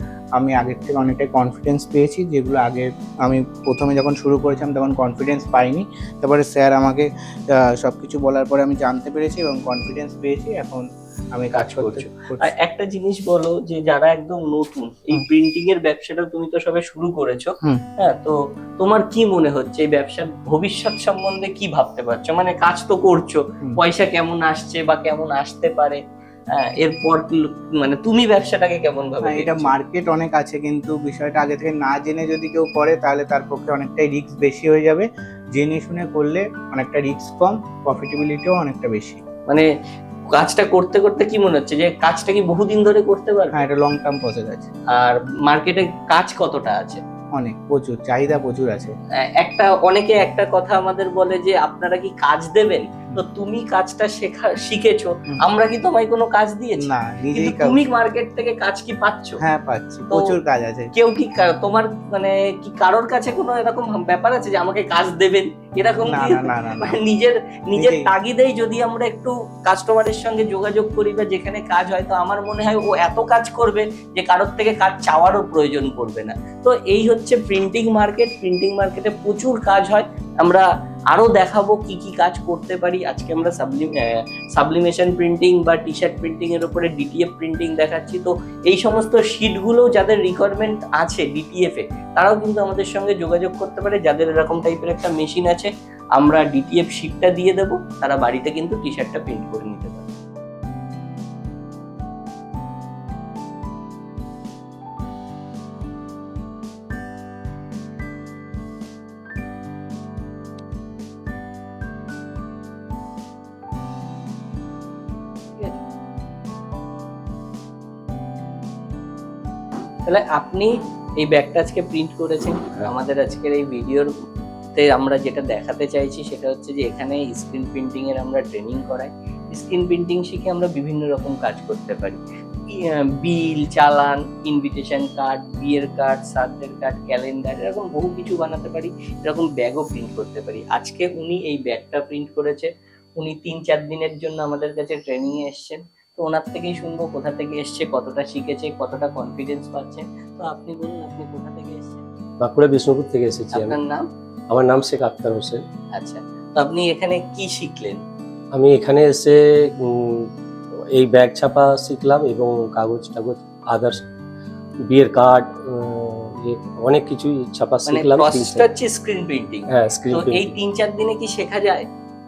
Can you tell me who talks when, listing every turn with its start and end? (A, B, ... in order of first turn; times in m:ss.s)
0:00.4-0:10.8 A
0:11.4-0:12.5 A
0:11.6-0:26.0 B
0:26.6-0:29.7 B
0:29.2-0:39.2 A
0:40.3-0:43.6 B
0:43.5-0:44.7 A
0:44.9-0:47.0 B
0:47.4-0:48.9 A
0:49.2-0:59.4 B
0:56.8-0:57.8 A
0:59.4-1:00.9 A
1:00.1-1:00.4 B
1:00.9-1:40.1 B
1:06.1-1:07.0 A
1:07.8-1:08.1 A
1:55.5-1:55.8 B
2:00.1-2:04.1 B
2:04.8-2:32.1 B
2:32.4-2:33.8 C
2:33.5-2:34.1 B
2:34.5-2:35.6 C
2:36.0-2:38.0 B
2:38.5-2:40.3 C
2:40.9-2:44.0 C
2:44.9-2:48.7 C
2:47.9-2:51.8 B
2:49.7-2:50.6 C